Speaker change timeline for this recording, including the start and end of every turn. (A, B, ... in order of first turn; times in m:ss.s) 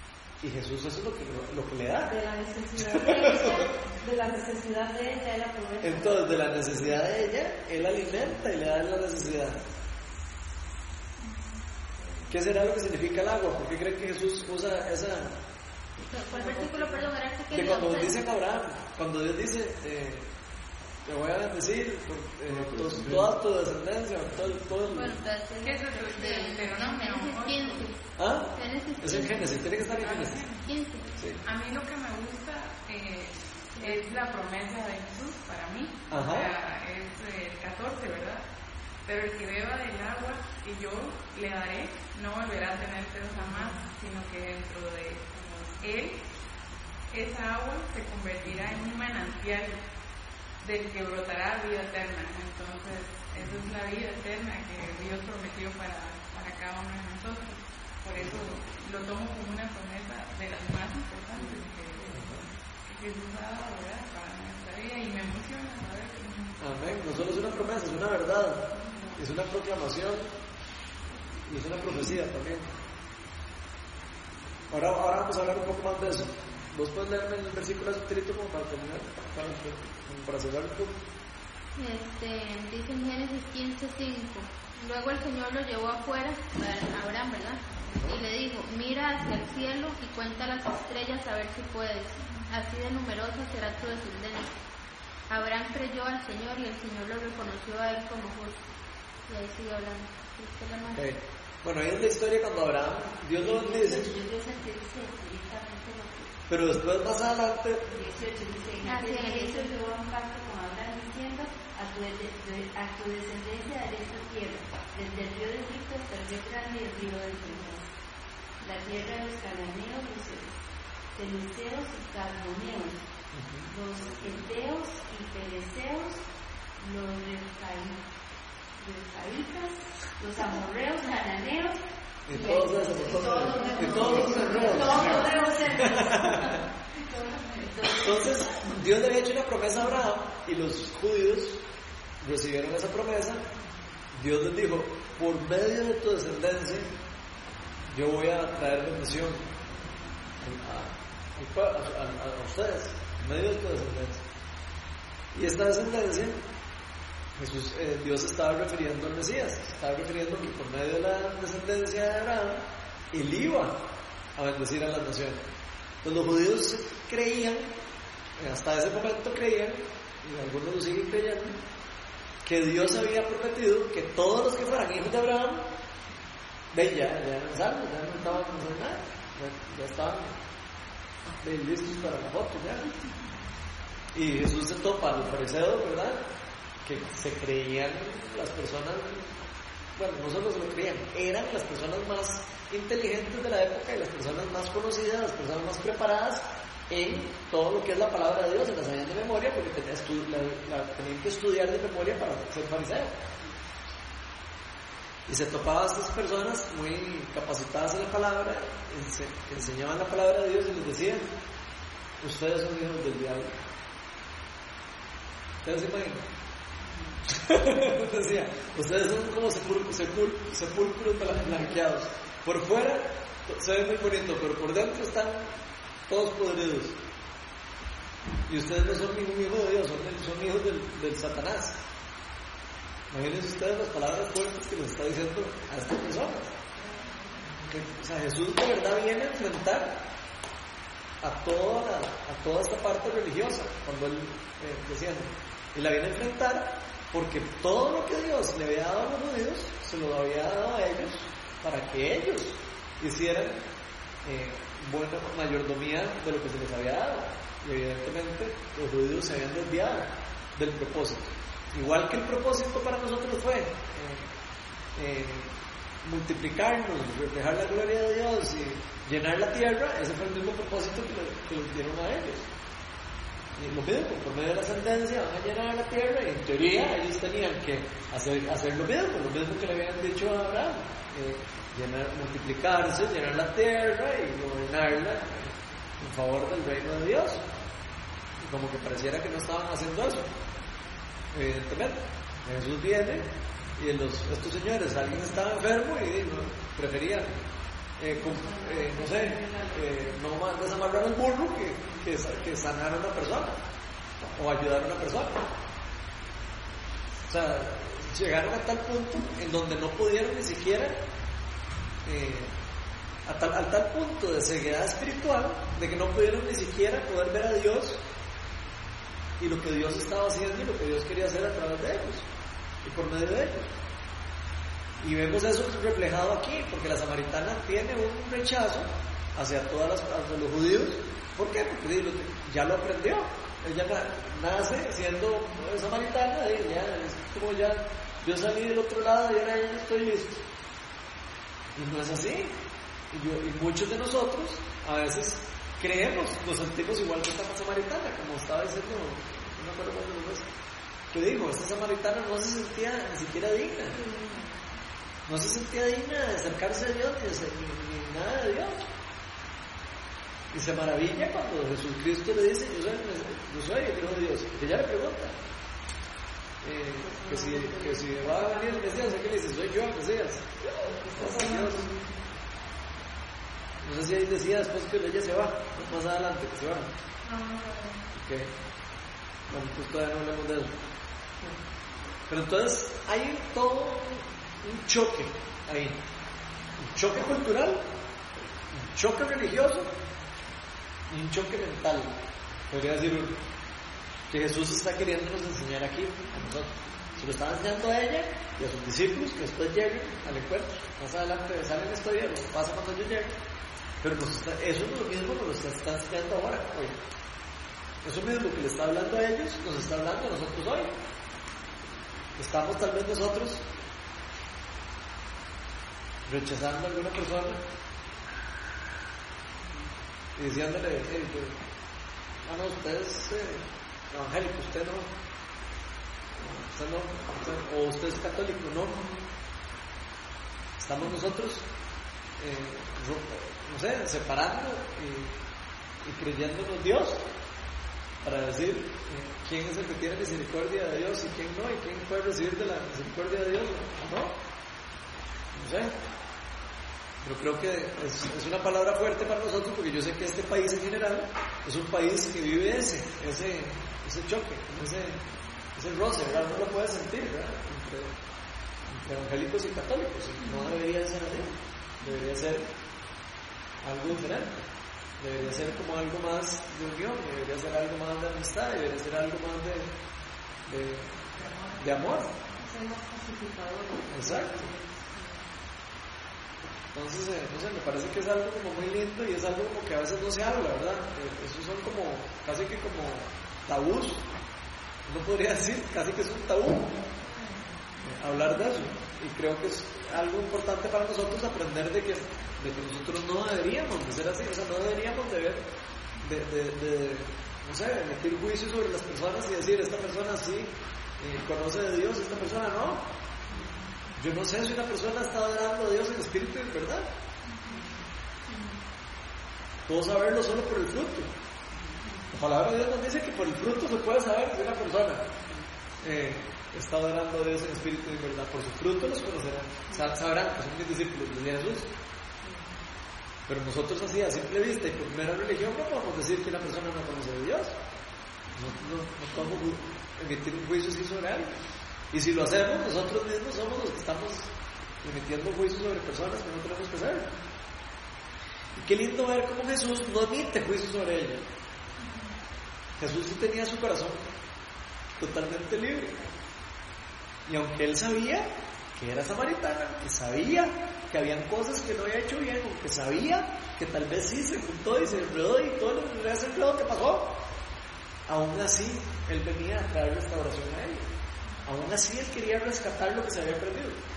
0:00.4-0:02.2 A
0:02.0-0:06.5 B
0:02.8-0:03.7 A
0:05.8-0:09.6 A
0:12.3-0:15.4 A
0:16.1-0:18.2 C
0:17.5-0:20.3 A
0:21.0-0:25.1 A
0:24.9-0:29.6 C
0:25.6-0:27.9 D
0:28.2-0:30.4 A
0:29.6-0:30.7 D
0:30.6-0:31.1 C
0:31.2-0:31.4 A
0:31.4-0:38.4 D
0:33.8-0:34.1 C
0:36.1-0:36.5 A
0:39.1-0:45.3 D
0:45.3-0:46.0 B
0:45.8-0:46.2 D
0:47.1-0:49.8 D
0:50.6-1:02.2 D
1:02.1-1:02.5 A
1:02.9-1:06.6 D
1:06.6-1:10.3 A
1:08.9-1:09.2 B
1:11.5-1:12.7 A
1:14.7-1:21.0 A
1:21.8-1:34.5 C
1:27.9-1:28.2 A
1:35.3-1:38.6 C
1:39.3-1:41.0 C
1:40.9-1:44.1 A
1:43.3-1:46.4 E
1:46.5-1:47.9 A
1:47.9-1:57.9 E
1:48.8-1:49.8 C
1:58.6-2:00.6 E
2:01.2-2:03.0 E
2:03.3-2:03.7 A
2:03.7-2:06.2 E
2:06.8-2:08.0 E
2:08.8-2:16.6 E
2:12.3-2:16.6 A
2:17.5-2:18.5 E
2:18.0-2:21.6 A
2:22.2-2:23.5 A
2:24.1-2:26.9 A
2:27.9-2:29.4 A
2:30.4-2:34.2 A
2:35.3-2:36.4 A
2:37.4-2:43.8 A
2:44.4-2:45.5 A
2:46.0-2:47.7 A
2:48.4-2:51.6 A
2:52.4-2:55.7 A
2:56.7-3:00.4 A
3:01.3-3:02.9 A
3:04.1-3:06.3 A
3:06.8-3:09.4 A
3:10.0-3:23.2 A
3:25.3-3:31.3 A
3:32.2-3:33.6 A
3:35.6-3:36.3 A
3:37.3-3:47.0 A
3:48.5-3:51.8 A
3:53.1-3:56.6 A
3:57.6-4:00.1 A
4:01.2-4:13.7 A
4:14.2-4:24.3 A
4:25.0-4:32.5 A
4:33.6-4:47.5 A
4:48.4-4:50.3 A
4:51.3-4:57.4 A
4:58.0-5:03.6 A
4:58.1-5:00.0 B
5:04.4-5:05.5 A
5:07.3-5:11.0 A
5:12.0-5:12.6 A
5:13.2-5:18.0 A
5:19.4-5:22.3 A
5:22.8-5:23.7 A
5:25.0-5:40.4 A
5:41.8-5:42.6 A
5:43.1-5:50.5 A
5:51.1-5:54.0 A
5:53.9-5:54.6 B
5:55.3-5:58.8 A
6:00.5-6:05.4 A
6:06.6-6:11.9 A
6:07.0-6:09.2 B
6:10.8-6:12.2 B
6:13.8-6:16.9 A
6:17.2-6:18.0 B
6:18.1-6:18.5 A
6:19.5-6:20.8 A
6:22.3-6:26.0 A
6:26.8-6:27.9 A
6:28.7-6:29.9 A
6:31.1-6:32.2 A
6:32.7-6:33.4 A
6:34.3-6:43.4 A
6:44.0-6:47.0 A
6:48.0-6:51.0 A
6:52.4-6:53.7 A
6:56.3-6:57.6 A
7:00.4-7:01.6 A
7:02.4-7:05.1 A
7:06.4-7:09.0 A
7:08.9-7:09.2 B
7:10.8-7:11.7 A
7:12.4-7:15.4 A
7:16.0-7:17.2 A
7:18.2-7:24.4 A
7:25.5-7:26.0 A
7:27.2-7:38.2 A
7:38.9-7:42.7 A
7:43.8-7:44.6 A
7:45.2-7:49.9 A
7:50.7-7:52.3 A
7:52.5-7:55.5 B
7:54.1-7:54.7 A
7:56.9-8:04.2 A
8:05.1-8:07.0 A
8:07.4-8:07.8 B
8:08.0-8:15.7 A
8:16.2-8:23.1 A
8:24.2-8:27.1 A
8:28.5-8:28.8 C
8:29.9-8:31.3 A
8:32.3-8:35.3 A
8:36.0-8:41.9 A
8:42.4-8:42.7 B
8:43.5-8:47.8 A
8:48.6-8:51.6 A
8:52.1-8:57.3 A
8:58.8-9:01.5 A
9:03.0-9:04.2 A
9:05.2-9:06.2 A
9:07.5-9:17.4 A
9:18.3-9:21.1 A
9:21.6-9:24.0 A